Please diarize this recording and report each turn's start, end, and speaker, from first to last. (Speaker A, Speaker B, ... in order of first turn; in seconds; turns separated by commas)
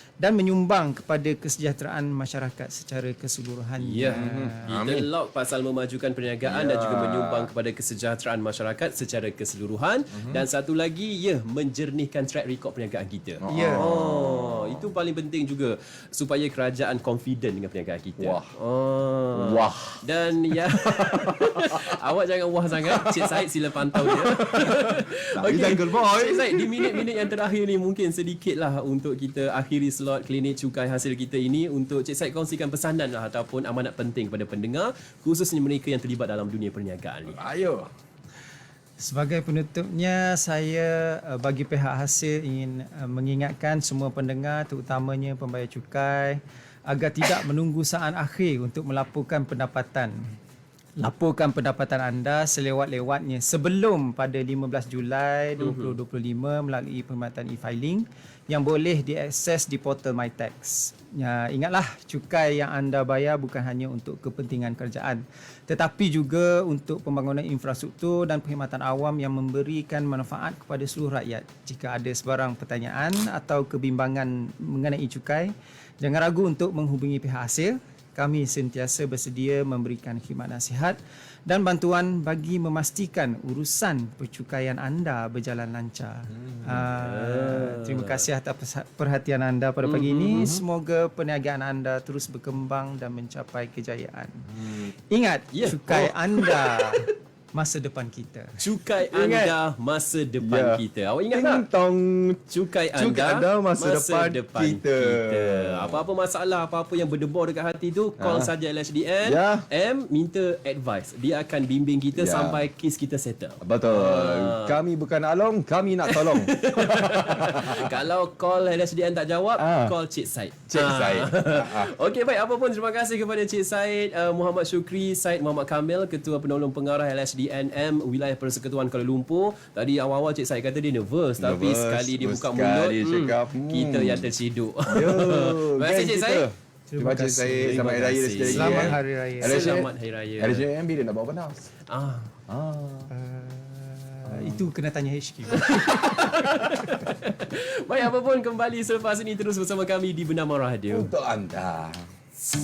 Speaker A: 0.2-4.6, Speaker B: 3.8-37.4, Speaker C: 4.1-5.1, Speaker C: 6.4-7.5, Speaker C: 10.1-10.4, Speaker C: 13.4-14.9, Speaker A: 13.5-13.8, Speaker C: 18.2-18.5, Speaker C: 19.3-20.0, Speaker C: 20.6-22.0, Speaker C: 22.9-27.2, Speaker C: 37.3-37.9, Speaker A: 39.0-50.3, Speaker A: 51.0-98.5, Speaker B: 55.6-55.9, Speaker C: 86.3-86.8, Speaker B: 86.7-88.2, Speaker B: 89.8-90.5, Speaker C: 90.3-90.6, Speaker C: 94.5-94.9, Speaker B: 95.5-97.0, Speaker B: 98.6-101.6, Speaker C: 99.1-99.5, Speaker C: 100.4-106.0, Speaker B: 102.5-114.8, Speaker C: 108.2-108.5, Speaker C: 109.2-109.6, Speaker C: 112.1-112.7, Speaker C: 113.6-117.9, Speaker B: 116.1-136.5, Speaker C: 119.6-119.9, Speaker C: 120.7-121.9, Speaker C: 131.4-134.3, Speaker C: 134.9-141.7, Speaker A: 136.9-137.9, Speaker B: 137.6-140.6, Speaker A: 138.4-139.8, Speaker B: 141.9-142.3, Speaker C: 142.5-143.1, Speaker A: 143.1-145.8, Speaker C: 144.3-144.6, Speaker B: 145.5-151.1, Speaker C: 150.9-152.1